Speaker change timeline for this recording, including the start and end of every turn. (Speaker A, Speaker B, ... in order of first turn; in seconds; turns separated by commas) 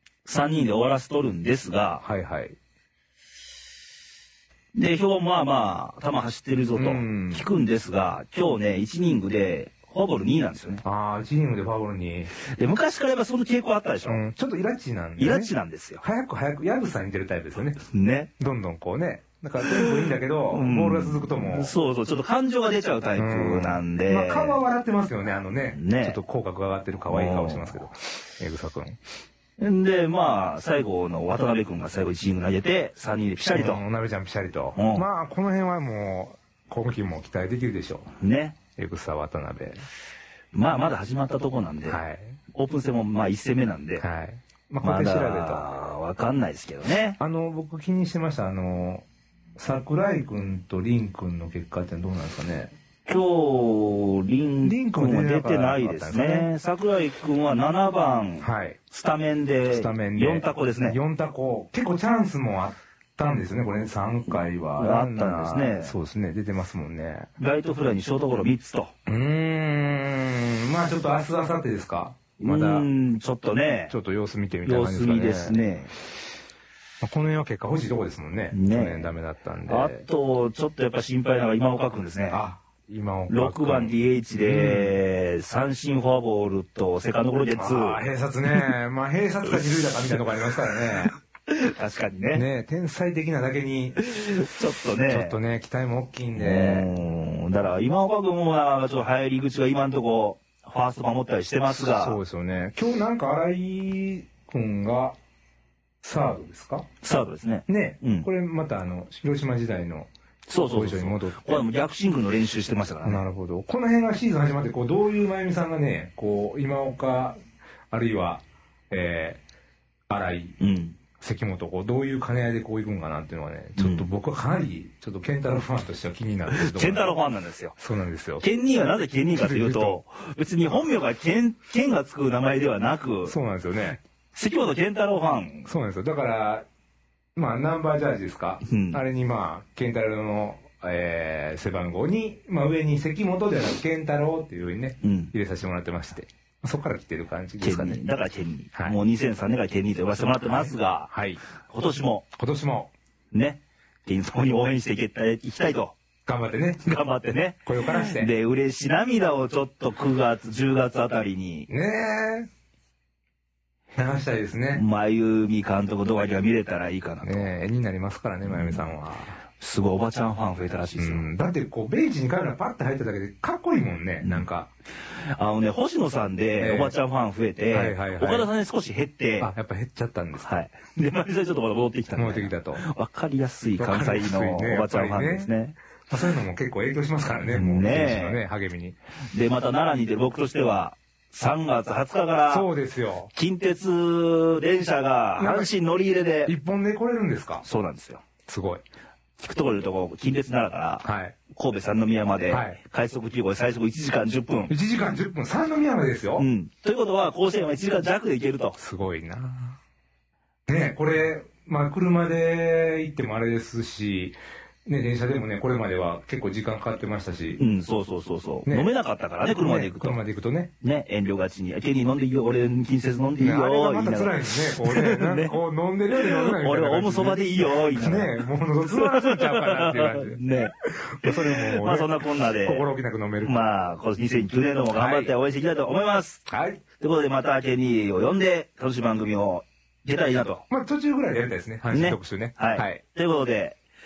Speaker A: 0.2-2.0, Speaker B: 2.0-2.6, Speaker A: 4.7-10.8, Speaker B: 6.8-7.5, Speaker B: 10.8-12.3, Speaker A: 12.4-14.2, Speaker B: 14.1-17.8, Speaker A: 15.2-16.0, Speaker A: 17.8-18.3, Speaker B: 18.4-21.8, Speaker A: 19.6-24.6, Speaker B: 23.2-29.0, Speaker A: 25.7-26.2, Speaker A: 27.1-27.8, Speaker A: 29.6-33.8, Speaker B: 33.5-38.1, Speaker A: 34.8-35.1, Speaker A: 38.2-38.6, Speaker B: 38.8-39.8, Speaker A: 40.5-42.0, Speaker B: 41.9-42.4, Speaker A: 42.5-44.0, Speaker B: 44.0-45.7, Speaker A: 44.8-47.2, Speaker B: 47.2-52.7, Speaker A: 53.1-61.0, Speaker B: 54.6-56.5, Speaker B: 58.4-58.8, Speaker B: 59.7-67.3, Speaker A: 64.8-65.9, Speaker A: 67.4-68.9, Speaker B: 69.1-72.9, Speaker A: 72.4-73.9, Speaker B: 73.9-75.6, Speaker A: 74.7-75.9, Speaker B: 77.0-80.0, Speaker A: 78.5-79.1, Speaker A: 79.7-82.4, Speaker B: 82.3-85.0, Speaker A: 83.3-88.0, Speaker B: 87.5-91.1, Speaker A: 90.8-92.5, Speaker B: 92.3-94.0, Speaker A: 94.0-95.4, Speaker B: 95.0-96.9, Speaker A: 96.3-102.2, Speaker B: 101.7-105.2, Speaker B: 106.0-106.9, Speaker A: 107.0-108.3, Speaker B: 107.7-111.7, Speaker A: 110.5-113.2, Speaker B: 113.0-117.4, Speaker B: 117.9-119.4, Speaker B: 120.1-120.6, Speaker A: 120.6-121.0, Speaker B: 121.2-127.2, Speaker A: 123.8-124.1, Speaker A: 126.5-127.8, Speaker B: 127.8-128.5, Speaker A: 128.4-133.3, Speaker B: 129.3-130.0, Speaker B: 133.3-134.0, Speaker A: 134.3-135.7, Speaker B: 135.7-136.7, Speaker B: 137.4-148.1, Speaker A: 138.6-139.0, Speaker A: 145.0-145.3, Speaker A: 147.6-151.1, Speaker B: 150.4-151.4, Speaker A: 151.6-152.3, Speaker B: 152.3-152.9, Speaker A: 153.3-156.0, Speaker B: 156.3-156.8, Speaker A: 156.8-161.7, Speaker B: 157.7-158.3, Speaker B: 161.7-162.5, Speaker B: 163.9-164.8, Speaker A: 164.7-167.5, Speaker B: 167.2-169.4, Speaker A: 168.5-168.8, Speaker A: 169.6-171.3, Speaker B: 171.0-174.7, Speaker A: 174.2-174.5, Speaker A: 175.1-179.5, Speaker B: 176.6-177.0, Speaker B: 177.7-178.5, Speaker B: 179.4-180.5, Speaker A: 180.4-185.8, Speaker B: 182.1-182.8, Speaker B: 183.8-185.5, Speaker B: 186.1-189.0, Speaker A: 187.5-188.4, Speaker A: 189.3-192.7, Speaker B: 192.5-193.3, Speaker A: 193.3-196.5, Speaker B: 195.4-195.7, Speaker B: 196.5-197.7, Speaker A: 197.6-198.2, Speaker B: 198.5-198.8, Speaker A: 199.4-204.7, Speaker B: 201.0-201.4, Speaker B: 202.5-202.8, Speaker B: 204.7-206.5, Speaker A: 206.4-208.8, Speaker B: 208.8-209.8, Speaker B: 210.7-217.6, Speaker A: 217.6-220.2, Speaker B: 218.7-218.9, Speaker B: 219.4-220.7, Speaker A: 220.8-225.6, Speaker B: 223.4-233.6, Speaker A: 226.1-232.9, Speaker A: 233.4-236.4, Speaker B: 234.9-235.3, Speaker B: 236.5-236.8, Speaker A: 237.0-240.6, Speaker B: 240.7-243.0, Speaker A: 241.9-243.8